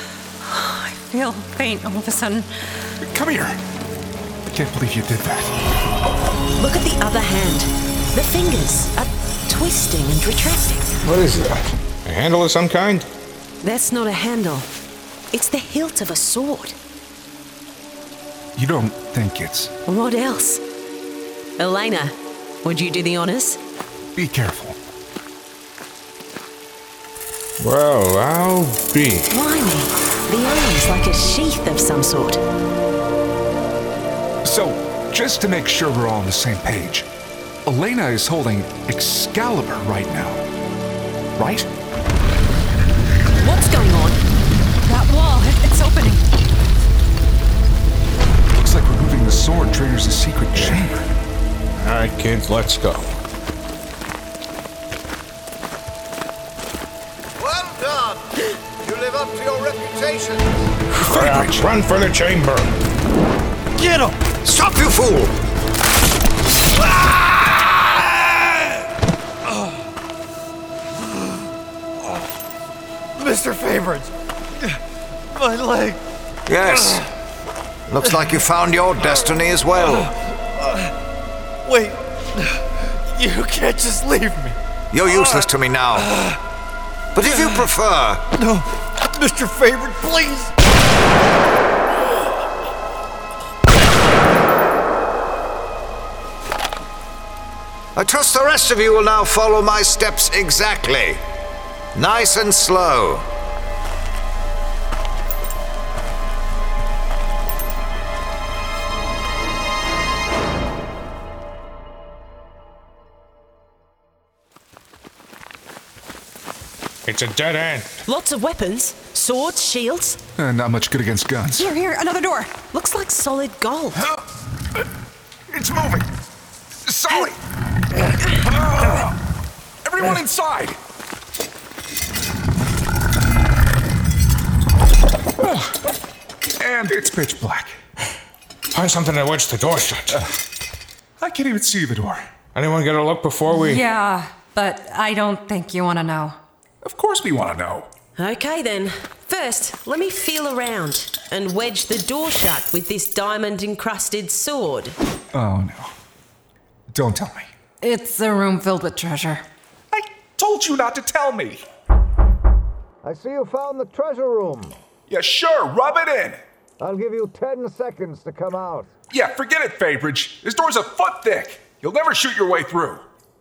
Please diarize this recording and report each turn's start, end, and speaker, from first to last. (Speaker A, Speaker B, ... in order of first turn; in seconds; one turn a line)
Speaker A: 0.4-2.9
Speaker B: 3.0-3.6
Speaker B: 4.5-5.6
Speaker C: 6.6-11.0
Speaker D: 11.0-13.1
Speaker C: 13.6-14.7
Speaker C: 15.3-16.8
Speaker B: 18.6-19.7
Speaker C: 19.9-20.6
Speaker C: 21.6-23.6
Speaker B: 24.1-24.8
Speaker D: 27.6-29.3
Speaker C: 29.3-32.4
Speaker B: 34.4-37.1
Speaker B: 37.7-40.4
Speaker B: 41.4-41.7
Speaker C: 43.4-44.2
Speaker A: 44.9-46.2
Speaker B: 48.5-51.0
Speaker D: 50.6-50.9
Speaker D: 51.8-53.2
Speaker E: 57.4-60.7
Speaker D: 61.0-62.7
Speaker B: 61.0-61.7
Speaker F: 63.8-64.2
Speaker E: 64.4-65.3
Speaker F: 73.2-74.8
Speaker F: 75.3-76.0
Speaker E: 76.5-77.0
Speaker F: 76.7-77.1
Speaker E: 77.9-80.1
Speaker F: 78.0-78.4
Speaker F: 79.8-80.9
Speaker F: 81.6-86.4
Speaker E: 84.9-86.1
Speaker E: 87.1-88.3
Speaker F: 87.2-87.7
Speaker F: 88.4-90.5
Speaker E: 98.0-101.2
Speaker E: 102.0-103.3
Speaker D: 117.1-117.9
Speaker C: 118.1-120.2
Speaker B: 120.4-121.7
Speaker A: 121.6-122.5
Speaker C: 122.7-124.0
Speaker B: 125.5-126.1
Speaker B: 126.8-127.4
Speaker B: 128.2-129.2
Speaker B: 129.8-130.8
Speaker B: 135.4-135.8
Speaker B: 136.6-137.8
Speaker D: 138.7-140.2
Speaker B: 141.2-142.3
Speaker D: 142.6-143.8
Speaker A: 143.5-146.4
Speaker B: 146.8-147.9
Speaker C: 148.2-155.0
Speaker B: 155.3-155.9
Speaker B: 156.9-157.5
Speaker A: 157.8-159.4
Speaker B: 159.9-161.6
Speaker E: 163.0-164.8
Speaker B: 165.1-166.4
Speaker E: 166.8-168.9
Speaker B: 169.1-173.1